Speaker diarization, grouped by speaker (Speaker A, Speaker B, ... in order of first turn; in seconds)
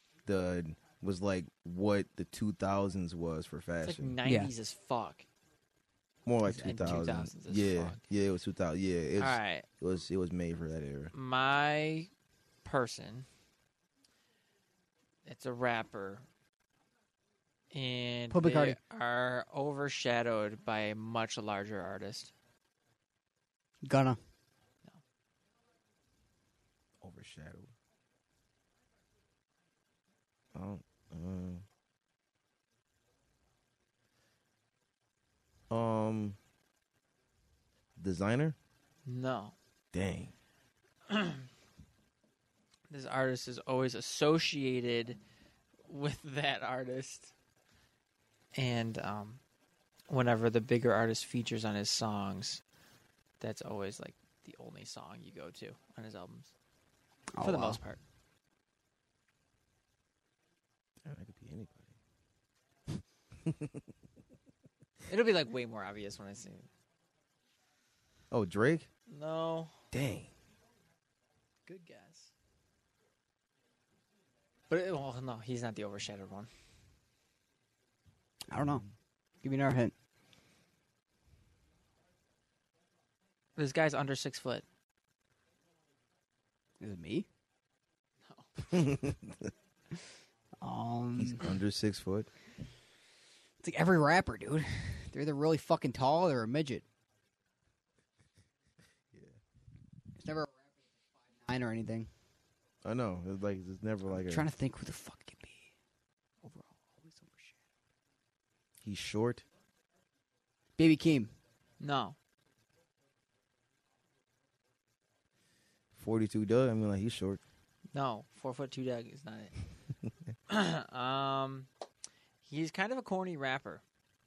Speaker A: 0.3-4.1, 6.3-11.1, 27.0-27.7, 30.5-31.6, 35.7-36.4, 38.0-38.6, 39.9-40.3, 61.0-61.9, 63.5-63.8, 68.3-68.9, 69.9-70.3, 88.7-89.5, 91.2-92.3, 102.8-104.5, 108.8-109.4, 116.0-117.4
Speaker B: 3.8-5.3, 6.5-8.0, 9.2-9.7, 11.1-12.1, 12.6-13.3, 15.2-16.3, 17.7-22.3, 39.1-39.5, 41.1-41.5, 42.9-45.2, 45.9-47.3, 48.5-49.4, 50.1-52.6, 53.4-56.5, 57.4-58.0, 65.1-66.7, 69.1-69.8, 71.7-72.3, 74.7-76.5, 83.6-84.7, 88.2-88.7, 111.8-112.2, 117.9-119.5, 120.5-121.7, 122.4-123.8
Speaker C: 4.2-4.5, 18.3-18.8, 23.8-24.2, 57.4-57.8, 78.5-78.8, 79.4-79.9, 86.8-87.3, 90.6-91.5, 93.6-96.8, 100.2-100.6, 101.3-102.1, 104.1-105.7, 106.4-107.6, 110.8-111.3